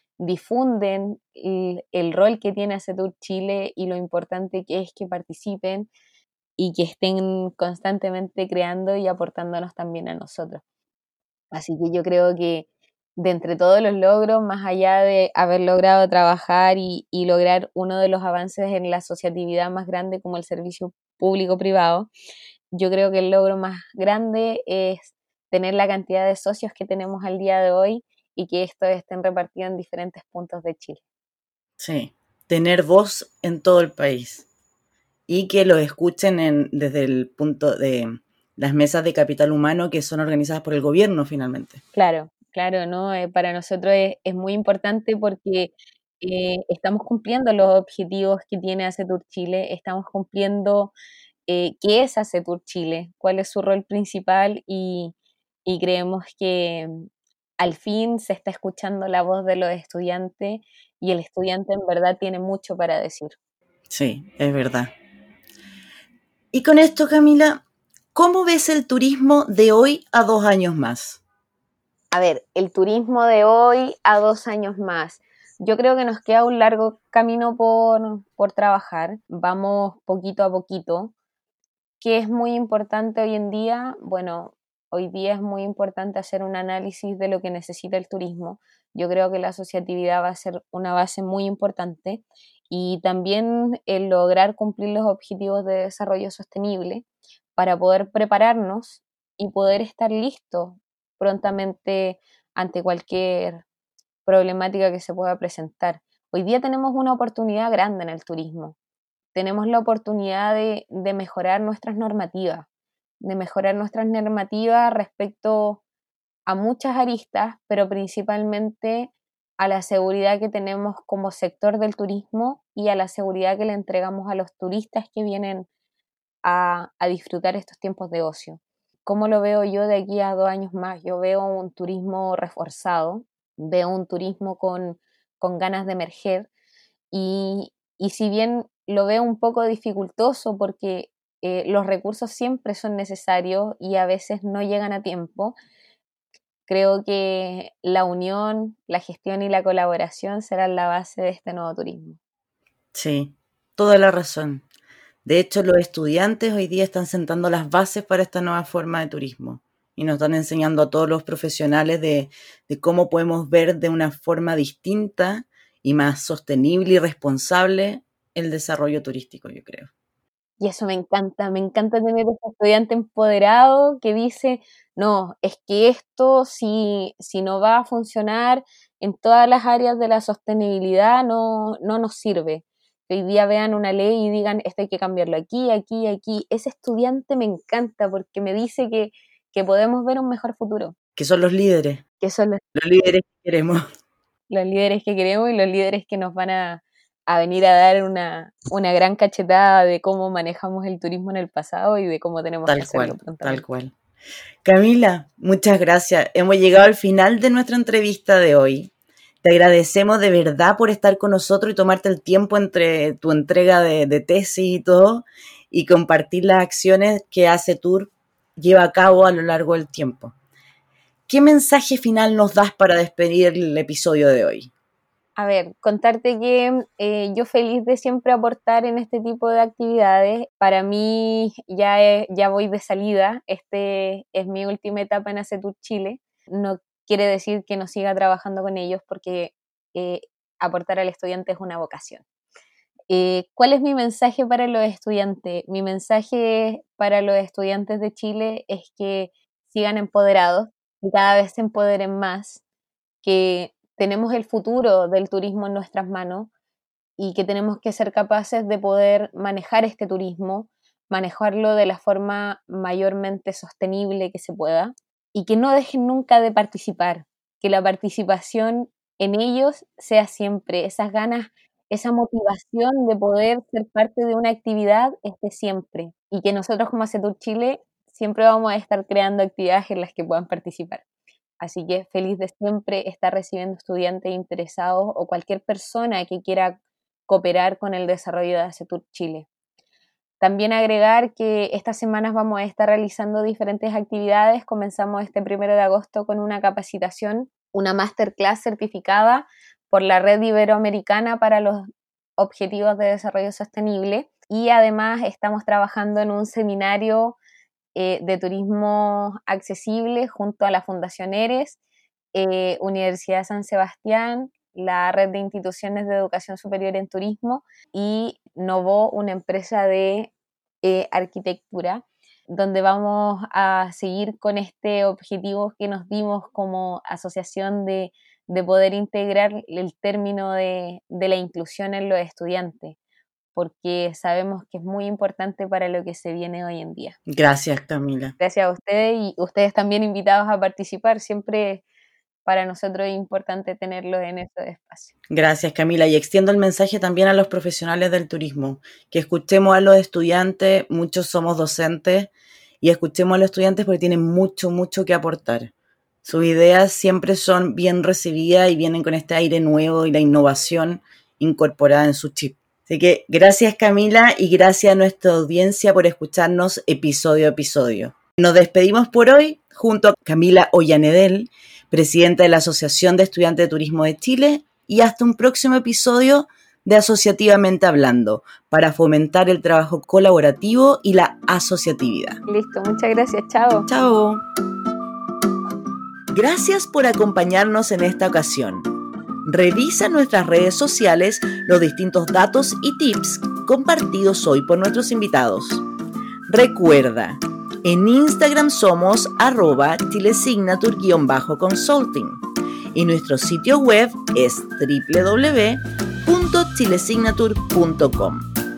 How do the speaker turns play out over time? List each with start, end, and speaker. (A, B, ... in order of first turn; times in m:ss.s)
0:00.2-0:05.9 A
0:06.6-0:10.6 A
0:11.5-0:22.1 A
0:22.7-0:31.0 A
0:31.8-0:34.5 B
0:35.3-0:41.8 B
0:42.0-0:50.9 A
0:51.5-0:55.1 A
0:55.7-0:57.0 A
0:57.6-1:03.4 A
1:03.9-1:04.9 B
1:06.5-1:07.6 B
1:08.2-1:11.2 B
1:12.1-1:21.1 A
1:22.0-1:37.0 A
1:37.6-1:43.6 A
1:44.3-1:48.8 A
1:49.3-1:52.7 A
1:53.2-1:55.8 A
1:56.5-2:05.7 A
2:06.4-2:16.5 A
2:17.1-2:25.6 A
2:26.7-2:32.2 A
2:32.9-2:34.6 B
2:35.2-2:49.9 B
2:50.6-3:11.0 A
3:11.2-3:12.0 B
3:12.2-3:12.6 A
3:12.7-3:13.8 B
3:14.5-3:23.6 A
3:22.7-3:23.9 B
3:24.6-3:28.9 B
3:29.4-3:40.3 B
3:41.3-3:44.7 B
3:45.4-4:02.2 A
4:03.1-4:12.6 A
4:13.2-4:16.5 A
4:17.2-4:41.0 A
4:41.6-4:49.5 A
4:50.4-5:01.9 A
5:02.4-5:07.4 A
5:08.0-5:11.8 A
5:12.3-5:20.3 A
5:20.8-5:33.0 A
5:33.6-5:37.2 A
5:37.3-5:38.4 B
5:38.4-5:41.8 A
5:42.5-5:45.1 A
5:45.3-5:52.3 B
5:52.8-5:55.7 B
5:56.2-6:22.4 B
6:22.5-6:23.9 A
6:23.9-6:24.4 B
6:26.3-6:28.9 B
6:29.5-6:35.8 B
6:36.5-6:42.4 B
6:42.9-6:48.5 B